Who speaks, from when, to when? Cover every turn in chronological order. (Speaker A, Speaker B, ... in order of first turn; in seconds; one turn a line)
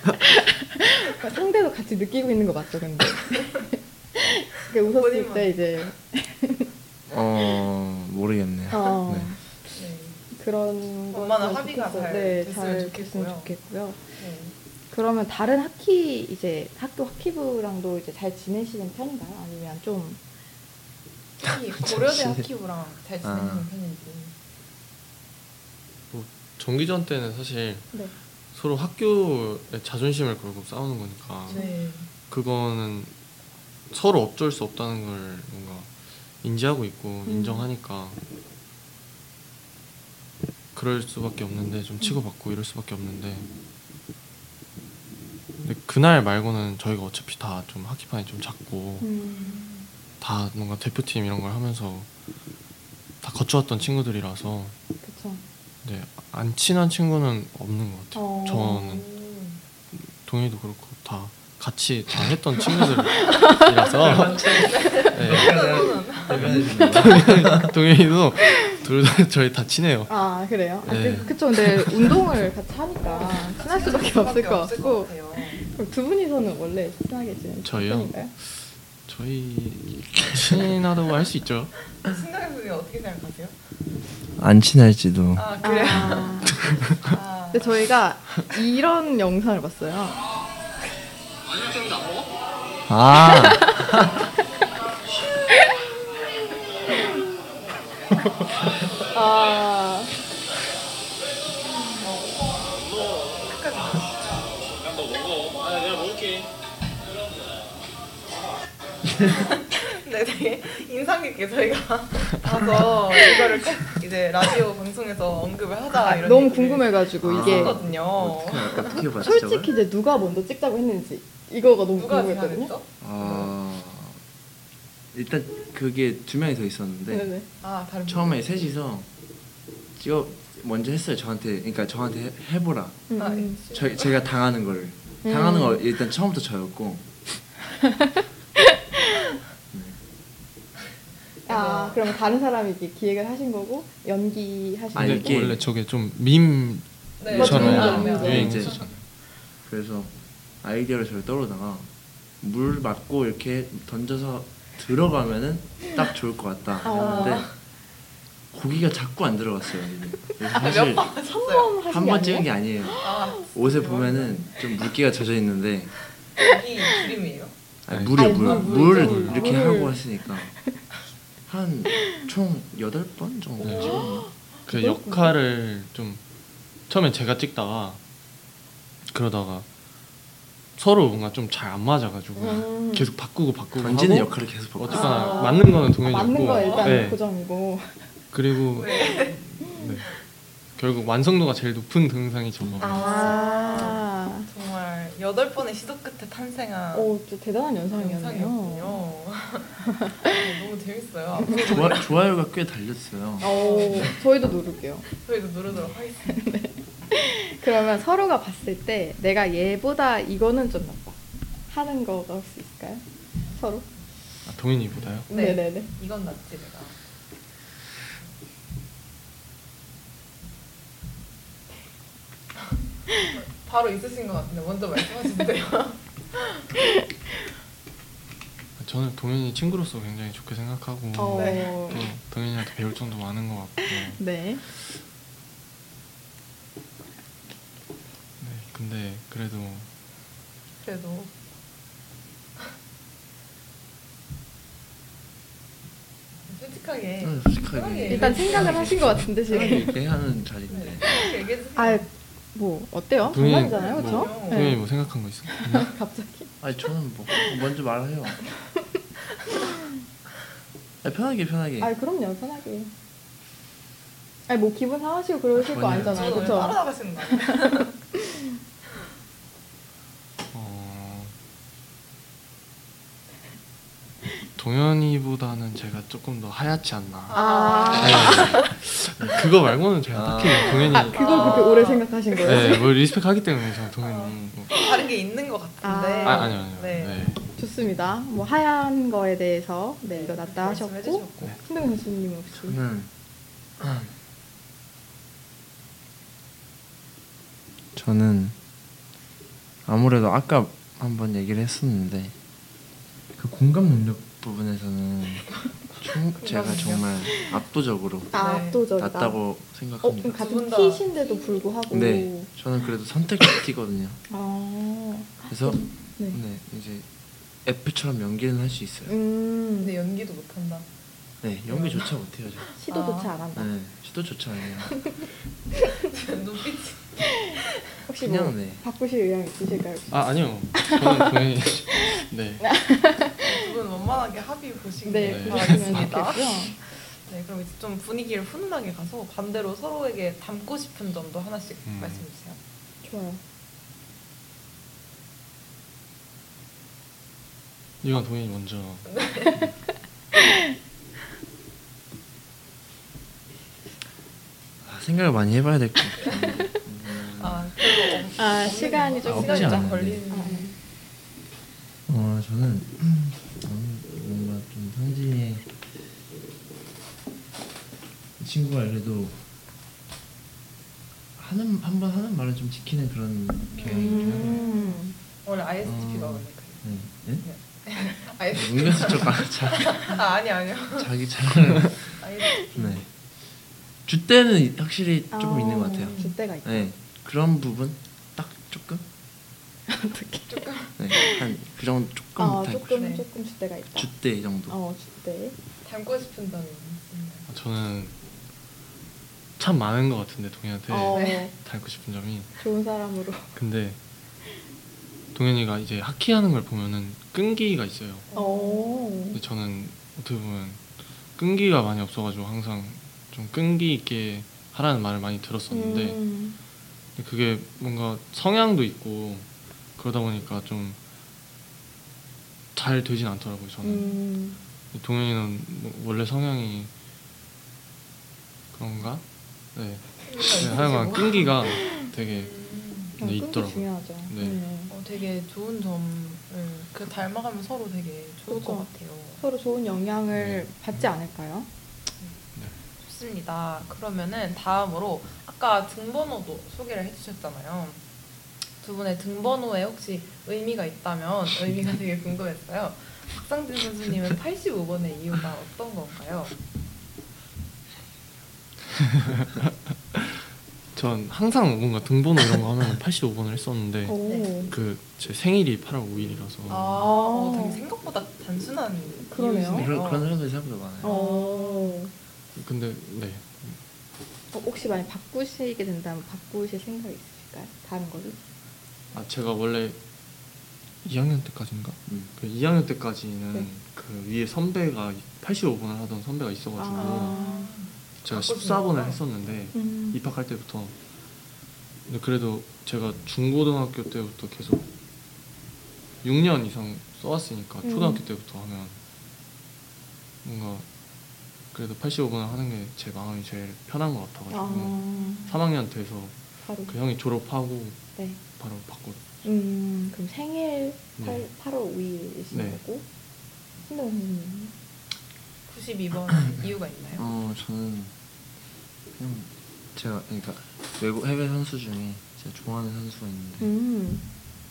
Speaker A: 0.2-6.7
Speaker B: 4.8-5.6
Speaker C: 7.1-9.3
Speaker A: 8.7-9.4
Speaker B: 9.7-10.2
Speaker A: 10.3-14.0
Speaker B: 11.1-13.5
Speaker B: 14.2-14.5
Speaker A: 14.9-20.2
Speaker B: 21.4-24.3
Speaker C: 21.8-22.5
Speaker C: 23.2-23.7
Speaker D: 26.1-27.9
Speaker D: 28.5-31.6
Speaker B: 31.5-32.1
Speaker A: 31.5-31.8
Speaker D: 32.3-33.1
Speaker D: 33.9-35.9
Speaker D: 36.4-38.2
Speaker A: 37.2-37.7
Speaker D: 40.7-43.5
Speaker D: 45.6-49.1
Speaker A: 49.0-49.6
Speaker B: 49.4-49.9
Speaker D: 50.2-52.1
Speaker D: 53.2-54.7
Speaker A: 55.0-55.4
Speaker D: 55.8-59.0
Speaker A: 58.1-58.8
Speaker B: 58.8-59.6
Speaker D: 59.9-64.4
Speaker A: 63.2-63.7
Speaker C: 63.9-67.7
Speaker B: 64.0-66.9
Speaker D: 65.1-70.1
Speaker A: 70.1-78.3
Speaker D: 70.8-72.1
Speaker B: 71.1-71.4
Speaker B: 73.0-75.6
Speaker D: 77.6-81.7
Speaker B: 81.9-83.5
Speaker C: 84.4-86.2
Speaker B: 85.3-87.8
Speaker A: 85.6-86.5
Speaker A: 87.5-90.2
Speaker C: 92.9-94.2
Speaker A: 93.2-93.8
Speaker A: 99.1-100.1
Speaker B: 102.0-104.3
Speaker B: 109.3-119.6
Speaker A: 116.0-117.8
Speaker C: 117.2-119.7
Speaker A: 119.1-122.7
Speaker B: 121.9-123.5
Speaker C: 123.0-124.2
Speaker C: 125.1-127.3
Speaker A: 127.1-127.5
Speaker B: 127.6-128.4
Speaker C: 128.1-129.1
Speaker C: 129.9-133.1
Speaker A: 133.1-133.6
Speaker B: 133.1-134.1
Speaker C: 133.7-137.0
Speaker A: 135.2-135.8
Speaker A: 137.8-139.1
Speaker C: 139.7-140.0
Speaker B: 141.4-142.1
Speaker A: 141.5-145.5
Speaker C: 144.9-145.6
Speaker D: 144.9-149.0
Speaker B: 147.2-148.9
Speaker C: 147.3-148.7
Speaker A: 147.3-148.6
Speaker C: 149.6-151.9
Speaker C: 152.4-157.5
Speaker A: 156.8-157.4
Speaker B: 156.9-157.5
Speaker C: 158.5-161.1
Speaker B: 160.5-161.7
Speaker A: 161.2-163.0
Speaker C: 161.9-165.9
Speaker B: 163.0-164.5
Speaker B: 166.4-167.5
Speaker C: 167.8-170.5
Speaker D: 167.9-169.4
Speaker A: 168.2-170.0
Speaker B: 168.2-169.7
Speaker C: 171.4-174.3
Speaker D: 173.6-174.0
Speaker B: 173.7-174.0
Speaker A: 174.2-175.4
Speaker D: 174.7-176.2
Speaker D: 176.9-178.0
Speaker D: 179.1-179.7
Speaker D: 180.8-187.2
Speaker A: 182.4-183.1
Speaker C: 183.7-185.3
Speaker A: 184.9-188.1
Speaker B: 185.1-185.7
Speaker B: 186.4-187.1
Speaker D: 188.3-190.1
Speaker B: 188.8-189.4
Speaker D: 190.8-193.2
Speaker A: 192.8-194.5
Speaker B: 192.8-197.1
Speaker A: 196.9-199.0
Speaker B: 197.9-202.1
Speaker C: 201.5-204.1
Speaker A: 203.4-205.1
Speaker B: 203.4-204.2
Speaker B: 205.1-206.5
Speaker A: 206.3-211.2
Speaker A: 211.7-213.8
Speaker D: 214.4-215.3
Speaker B: 215.3-217.0
Speaker A: 215.3-215.9
Speaker B: 223.3-226.6
Speaker D: 228.8-234.2
Speaker A: 231.2-232.0
Speaker B: 231.3-231.8
Speaker A: 234.1-234.6
Speaker D: 238.4-239.9
Speaker B: 240.8-241.3
Speaker B: 246.5-249.9
Speaker C: 247.2-251.1
Speaker A: 248.1-250.0
Speaker B: 250.7-252.1
Speaker A: 251.0-254.8
Speaker D: 253.3-255.9
Speaker B: 253.6-254.8
Speaker A: 255.5-256.5
Speaker C: 256.6-258.4
Speaker C: 261.0-261.9
Speaker A: 261.8-262.9
Speaker A: 264.5-266.8
Speaker C: 265.6-266.7
Speaker B: 265.9-267.9
Speaker D: 270.5-271.3
Speaker D: 274.6-277.4
Speaker B: 277.3-278.6
Speaker A: 277.3-278.6
Speaker D: 278.0-281.6
Speaker C: 280.1-281.1
Speaker A: 280.9-282.9
Speaker B: 281.1-282.7
Speaker D: 282.4-284.8
Speaker B: 284.0-287.2
Speaker A: 285.8-286.5
Speaker D: 286.2-287.4
Speaker A: 287.6-292.8
Speaker B: 290.0-291.6
Speaker C: 292.5-293.1
Speaker C: 293.8-294.1
Speaker C: 297.9-298.5
Speaker C: 299.9-302.3
Speaker C: 303.4-310.4
Speaker B: 306.4-307.2
Speaker A: 308.3-309.4
Speaker B: 308.3-308.8
Speaker A: 310.0-312.5
Speaker B: 310.3-311.7
Speaker C: 311.9-314.2
Speaker A: 314.3-316.4
Speaker C: 315.5-317.1
Speaker C: 317.6-319.1
Speaker A: 319.1-319.9
Speaker B: 319.8-320.9
Speaker C: 321.4-322.7
Speaker B: 321.7-322.1
Speaker A: 322.8-323.7
Speaker B: 322.9-323.3
Speaker C: 323.6-325.2
Speaker A: 324.9-325.3
Speaker B: 326.0-327.6
Speaker A: 328.1-330.2
Speaker C: 328.2-328.8
Speaker D: 330.1-332.6
Speaker A: 330.7-331.4
Speaker A: 331.9-333.7
Speaker B: 333.4-342.6
Speaker A: 335.0-336.8
Speaker D: 335.2-336.3
Speaker D: 341.8-342.2
Speaker A: 343.0-343.4
Speaker D: 348.0-349.1
Speaker B: 349.1-349.7
Speaker C: 354.8-357.8
Speaker B: 357.4-360.7
Speaker A: 358.3-360.8
Speaker C: 359.2-360.2
Speaker C: 362.1-365.7
Speaker C: 368.4-369.4
Speaker C: 371.4-374.9
Speaker B: 373.7-376.9
Speaker A: 373.9-375.1
Speaker C: 375.8-377.4
Speaker B: 377.4-381.1
Speaker C: 378.5-380.2
Speaker C: 380.9-382.1
Speaker B: 382.1-383.0
Speaker C: 382.7-383.1
Speaker C: 384.1-389.0
Speaker A: 385.3-386.9
Speaker B: 386.0-386.3
Speaker A: 389.9-391.4
Speaker B: 390.5-391.1
Speaker C: 391.0-393.1
Speaker A: 392.4-394.1
Speaker B: 392.9-393.2
Speaker C: 393.9-394.8
Speaker A: 394.7-395.6
Speaker B: 395.8-397.4
Speaker D: 397.5-398.1
Speaker D: 399.6-402.5
Speaker A: 400.9-401.5
Speaker B: 401.1-401.4
Speaker A: 402.6-403.5
Speaker D: 403.6-404.0
Speaker D: 405.3-408.2
Speaker B: 408.3-408.9
Speaker A: 408.3-409.4
Speaker D: 409.3-410.8
Speaker D: 411.4-416.2
Speaker A: 415.7-416.6
Speaker D: 417.1-421.0
Speaker D: 422.7-424.1
Speaker A: 423.8-424.6
Speaker D: 424.9-426.9
Speaker D: 428.7-429.2
Speaker D: 429.7-432.5
Speaker B: 430.2-433.1
Speaker D: 433.2-434.6
Speaker A: 433.2-434.9
Speaker B: 434.9-439.4
Speaker A: 438.5-441.7
Speaker D: 440.3-441.1
Speaker B: 443.0-448.0
Speaker B: 448.8-456.5
Speaker D: 459.2-460.4
Speaker D: 460.9-464.2
Speaker A: 464.1-464.7
Speaker B: 464.2-464.5
Speaker D: 464.7-467.1
Speaker B: 466.7-470.3
Speaker A: 467.0-467.8
Speaker A: 469.3-469.9
Speaker C: 469.7-471.2
Speaker B: 471.0-472.0
Speaker A: 471.0-472.1
Speaker D: 472.5-473.8
Speaker A: 474.5-478.4
Speaker D: 479.1-480.0
Speaker D: 481.0-487.4
Speaker A: 486.8-487.7
Speaker B: 486.9-489.2
Speaker D: 488.2-490.9
Speaker A: 489.7-490.2
Speaker D: 492.1-494.8
Speaker D: 496.2-499.0
Speaker A: 497.8-498.2
Speaker D: 500.4-500.8
Speaker D: 501.7-508.0
Speaker A: 504.5-505.5
Speaker A: 506.6-506.9
Speaker D: 508.6-509.2
Speaker A: 509.4-513.0
Speaker D: 511.2-511.4
Speaker D: 512.5-512.8
Speaker A: 513.9-514.7
Speaker B: 515.7-517.3
Speaker C: 517.1-518.1
Speaker C: 519.1-523.7
Speaker A: 523.6-524.2